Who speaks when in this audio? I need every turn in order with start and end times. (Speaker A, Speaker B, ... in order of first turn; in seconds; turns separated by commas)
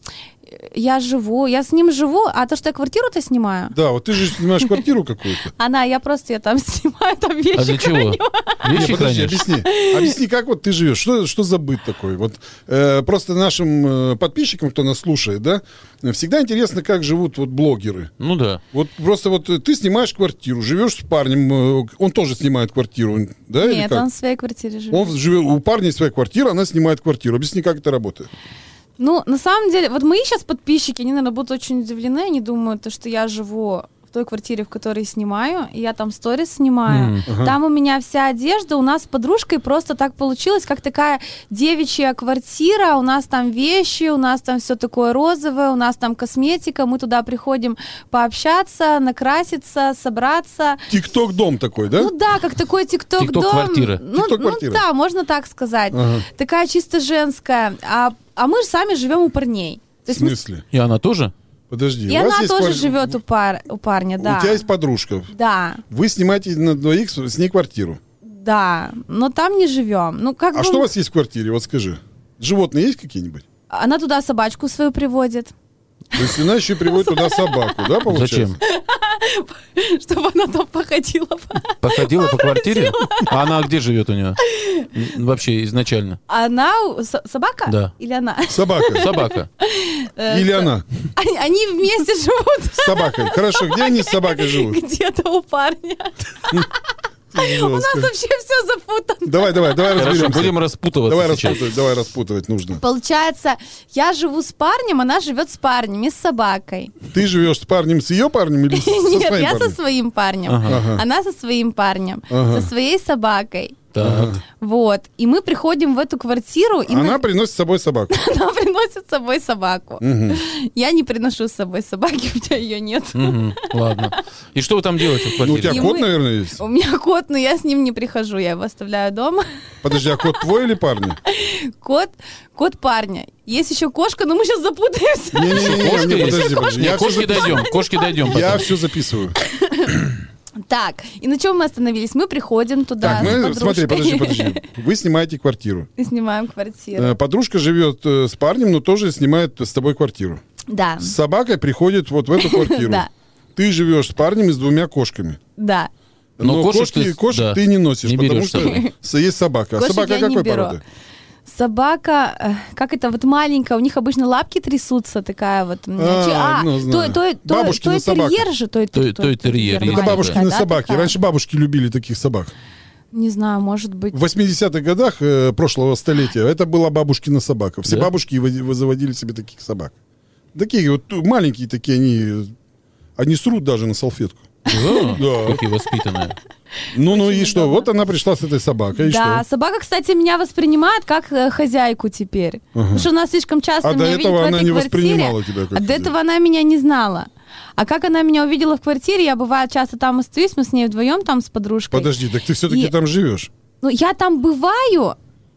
Speaker A: 0.5-4.8, Speaker B: 3.7-5.5, Speaker A: 5.5-8.7, Speaker C: 7.5-9.4, Speaker B: 8.7-18.1, Speaker A: 9.7-10.1, Speaker C: 18.2-18.6, Speaker B: 18.7-24.1, Speaker A: 23.6-25.1, Speaker B: 24.9-28.3, Speaker A: 29.0-50.9, Speaker C: 36.9-37.2, Speaker B: 37.3-37.6, Speaker B: 50.9-52.1, Speaker A: 51.9-60.4, Speaker C: 53.2-54.0, Speaker B: 54.1-54.8, Speaker B: 55.9-56.2, Speaker B: 60.1-60.6, Speaker C: 60.7-61.3, Speaker B: 61.7-63.1, Speaker A: 62.1-64.7, Speaker B: 64.2-65.3, Speaker A: 65.3-65.8, Speaker B: 65.9-68.0, Speaker A: 68.2-70.9, Speaker B: 70.5-73.4, Speaker A: 73.7-75.5, Speaker B: 76.2-78.6, Speaker A: 76.2-77.9, Speaker C: 78.1-78.6, Speaker A: 78.6-83.5, Speaker C: 81.8-84.4, Speaker A: 84.4-84.9, Speaker C: 84.9-86.2, Speaker A: 86.3-100.3, Speaker C: 87.7-87.9, Speaker B: 88.5-89.1, Speaker C: 89.0-89.5, Speaker B: 90.3-90.8, Speaker B: 92.8-94.8, Speaker B: 97.3-98.1, Speaker B: 99.2-102.8, Speaker C: 100.0-101.6, Speaker A: 102.8-107.0, Speaker B: 107.1-109.8, Speaker A: 108.7-113.9, Speaker C: 110.5-110.8, Speaker B: 110.7-111.0, Speaker B: 112.3-112.7, Speaker C: 113.9-114.4, Speaker B: 114.0-114.4, Speaker A: 114.6-117.2, Speaker B: 116.9-118.2, Speaker A: 118.1-124.1, Speaker B: 120.0-120.4, Speaker C: 123.2-125.9, Speaker A: 125.2-129.6, Speaker B: 125.4-126.6, Speaker B: 129.8-131.2, Speaker A: 131.3-138.4, Speaker B: 135.3-137.7, Speaker C: 135.5-138.7, Speaker B: 138.2-139.3, Speaker A: 139.4-140.1, Speaker A: 140.7-144.6, Speaker B: 143.0-145.9, Speaker C: 143.1-143.4, Speaker A: 146.0-147.2, Speaker B: 146.9-150.4, Speaker A: 150.7-151.2, Speaker B: 151.0-155.4, Speaker A: 152.4-153.1, Speaker A: 155.6-155.9, Speaker B: 156.4-160.8, Speaker C: 156.4-158.9, Speaker A: 158.6-158.9, Speaker A: 159.8-160.8, Speaker A: 161.4-171.1, Speaker B: 166.0-168.5, Speaker C: 168.9-170.4, Speaker B: 169.8-172.5, Speaker A: 173.1-174.2, Speaker B: 174.1-179.9, Speaker C: 177.8-178.1, Speaker B: 180.6-182.5, Speaker B: 183.2-184.6, Speaker A: 184.7-185.2, Speaker C: 184.7-186.4, Speaker B: 185.2-185.6, Speaker A: 186.8-187.9, Speaker B: 186.9-189.4, Speaker A: 189.0-202.1, Speaker B: 192.8-193.1, Speaker B: 193.8-196.1, Speaker B: 201.9-203.5, Speaker A: 202.7-202.9, Speaker A: 203.8-205.2